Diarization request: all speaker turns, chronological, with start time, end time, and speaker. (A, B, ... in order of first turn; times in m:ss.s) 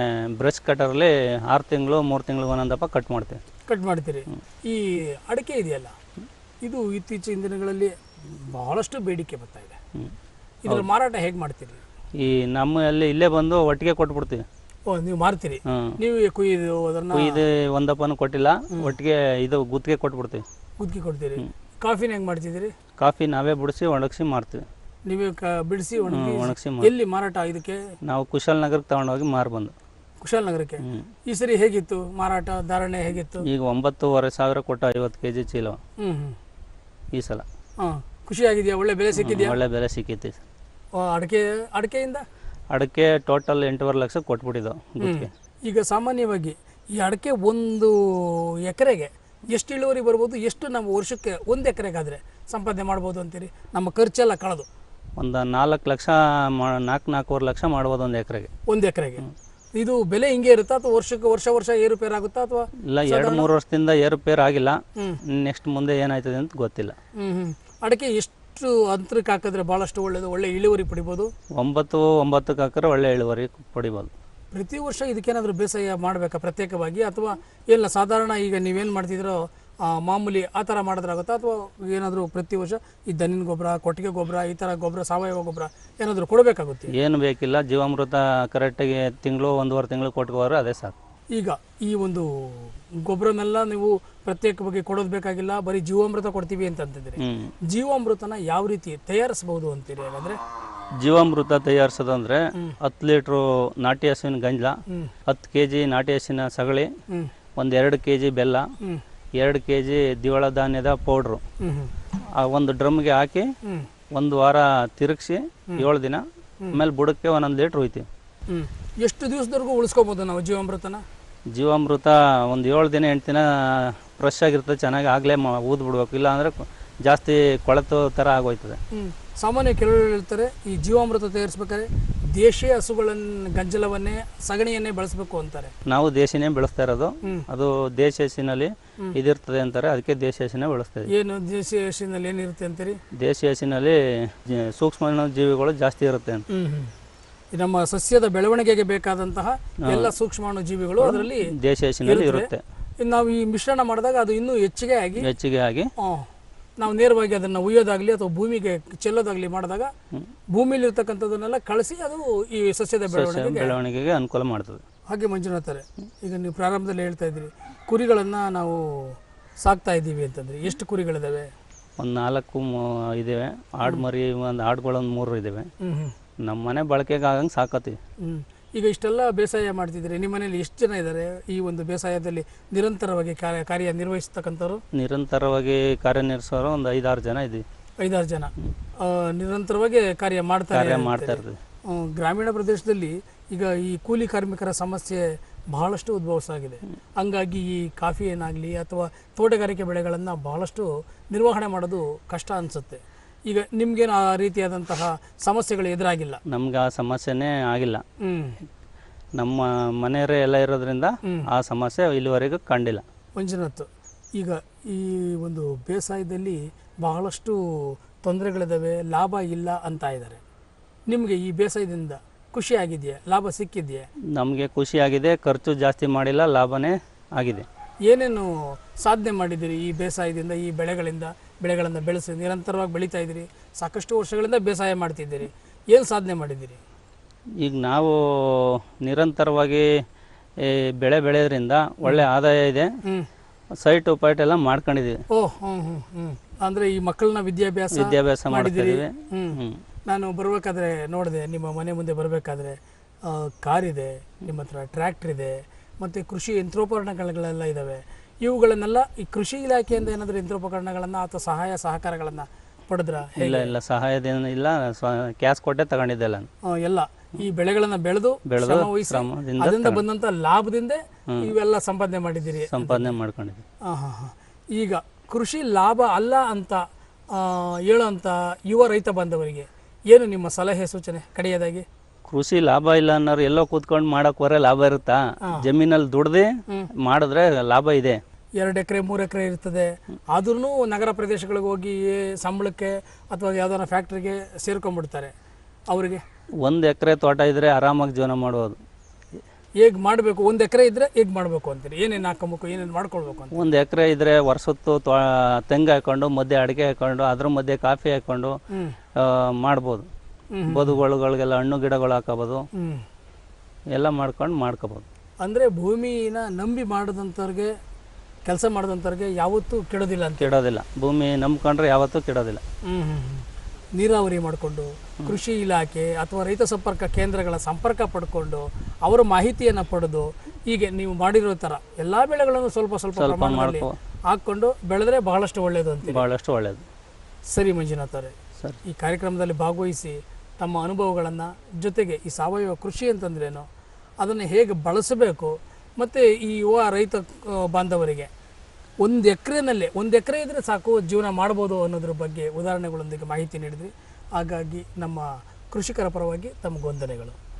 0:00.4-0:03.4 A
0:03.7-0:06.0 B
0:06.6-0:09.8 B
0:10.6-0:11.8 B
0:12.2-0:14.4 A
0:14.9-0:17.4 B
0:15.7-0:15.9 A
0:17.1-0:20.4 A
0:20.8-0:22.7 B
0:23.0-0:24.6 A
0:25.0-0:27.8 B
0:26.1-0:26.9 A
0:28.0-0:29.7 A
0:30.2-0:33.4 B
0:30.8-0:31.1 A
0:33.4-0:35.8 A
0:36.0-0:36.4 B
0:37.1-0:37.4 A
0:37.8-0:39.6 B
0:39.1-0:40.4 A
0:40.9-0:42.2 B
0:42.7-0:45.3 A
0:45.0-0:54.7 B
0:55.2-0:58.5 A
0:58.7-0:59.2 B
0:59.7-1:03.5 B
1:02.9-1:07.0 A
1:07.2-1:11.3 B
1:11.6-1:14.1 A
1:14.5-1:26.9 B
1:26.9-1:31.0 A
1:31.3-1:40.4 B
1:37.2-1:37.5 A
1:41.0-1:46.9 A
1:47.6-1:48.7 A
1:49.4-1:51.4 A
1:51.6-1:51.9 B
1:52.4-1:53.5 A
1:54.1-1:58.1 A
1:58.5-2:01.0 B
2:01.5-2:08.8 A
2:08.9-2:15.7 B
2:15.9-2:21.1 A
2:21.1-2:23.0 B
2:23.2-2:26.4 A
2:26.5-2:26.9 B
2:27.5-2:31.5 B
2:29.8-2:30.1 A
2:31.0-2:32.6 A
2:32.0-2:32.5 B
2:33.0-2:35.3 B
2:35.2-2:35.9 A
2:36.0-2:36.3 B
2:36.8-2:39.9 B
2:40.5-2:43.7 B
2:43.1-2:44.8 A
2:45.1-2:51.5 B
2:52.0-2:55.7 A
2:55.8-2:56.1 B
2:56.4-2:58.0 A
2:58.2-3:04.8 B
3:04.9-3:07.6 A
3:08.0-3:26.4 B
3:10.7-3:11.6 A
3:26.5-3:28.0 A
3:28.2-3:28.6 B
3:29.4-3:33.0 A
3:33.4-3:40.4 B
3:41.1-3:44.1 B
3:44.3-3:47.7 A
3:48.0-3:56.8 B
3:57.6-3:59.9 A
4:00.6-4:02.9 A
4:03.8-4:05.2 A
4:05.3-4:23.7 B
4:07.9-4:09.8 A
4:23.4-4:26.5 A
4:26.6-4:33.1 B
4:28.5-4:30.0 A
4:32.7-4:33.6 A
4:33.8-4:41.8 B
4:42.3-4:48.2 A
4:48.6-4:55.3 B
4:55.9-4:56.2 B
4:56.6-4:58.8 A
4:59.8-5:03.6 B
5:03.5-5:08.6 A
5:09.2-5:10.1 A
5:10.5-5:11.0 B
5:10.7-5:12.7 A
5:12.8-5:13.0 B
5:13.9-5:15.0 A
5:15.4-5:17.7 B
5:18.4-5:20.5 B
5:20.4-5:22.6 A
5:22.8-5:36.2 B
5:33.2-5:34.0 A
5:36.0-5:36.8 A
5:37.5-5:38.3 B
5:38.8-5:43.7 B
5:44.2-5:48.3 B
5:49.0-5:57.4 B